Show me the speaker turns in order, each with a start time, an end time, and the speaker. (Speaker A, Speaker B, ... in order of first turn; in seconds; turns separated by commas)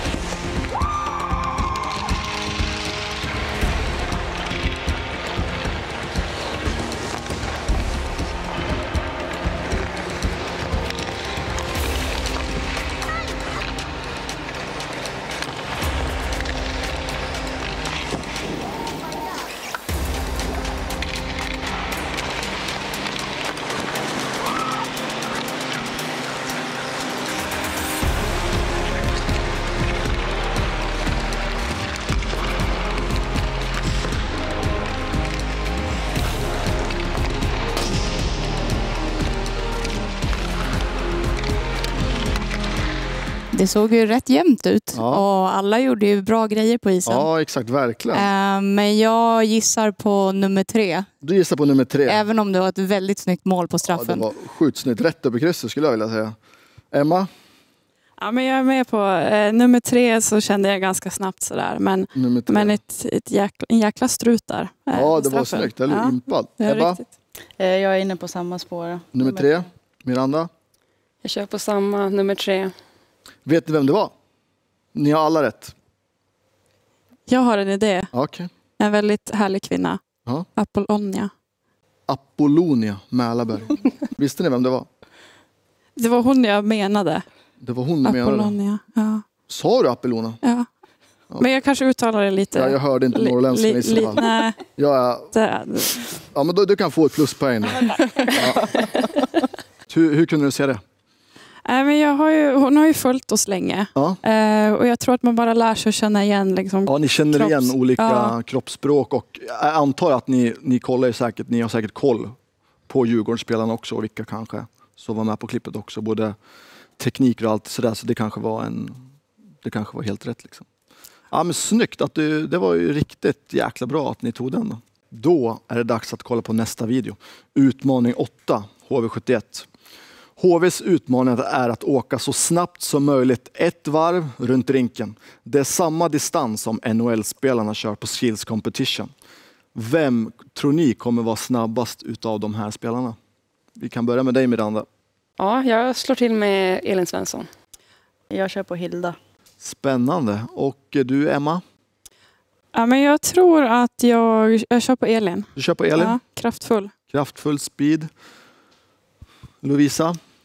Speaker A: 43.5-47.3, Speaker B: 44.9-45.2, Speaker B: 47.1-48.3, Speaker A: 48.1-51.1, Speaker B: 51.2-52.2, Speaker A: 52.1-54.2, Speaker B: 53.9-56.4, Speaker B: 56.9-57.3, Speaker C: 58.2-67.0, Speaker B: 62.1-62.8, Speaker B: 64.9-67.0, Speaker D: 67.6-69.6, Speaker B: 69.2-70.5, Speaker E: 71.2-72.7, Speaker B: 73.5-74.1, Speaker B: 74.9-75.7, Speaker C: 77.3-78.1, Speaker B: 78.1-78.5, Speaker C: 78.8-80.0, Speaker C: 80.6-81.3, Speaker B: 82.1-84.9, Speaker C: 86.0-87.3, Speaker B: 87.6-88.6, Speaker C: 88.0-89.2, Speaker B: 89.5-90.4, Speaker C: 90.4-90.7, Speaker C: 91.4-94.6, Speaker B: 92.5-94.2, Speaker B: 94.8-95.3, Speaker C: 95.3-96.2, Speaker B: 96.3-98.8, Speaker B: 99.9-100.8, Speaker C: 101.7-108.3, Speaker B: 104.0-104.2, Speaker B: 106.9-112.4, Speaker B: 112.9-116.4, Speaker B: 117.0-119.0, Speaker B: 119.6-120.7, Speaker B: 121.3-129.7, Speaker B: 130.4-139.1, Speaker B: 139.7-143.2, Speaker B: 143.8-144.9, Speaker E: 145.4-147.5, Speaker D: 148.3-149.2, Speaker B: 149.6-151.6, Speaker C: 152.7-156.9, Speaker B: 155.6-156.2, Speaker B: 157.1-158.1, Speaker B: 159.6-160.2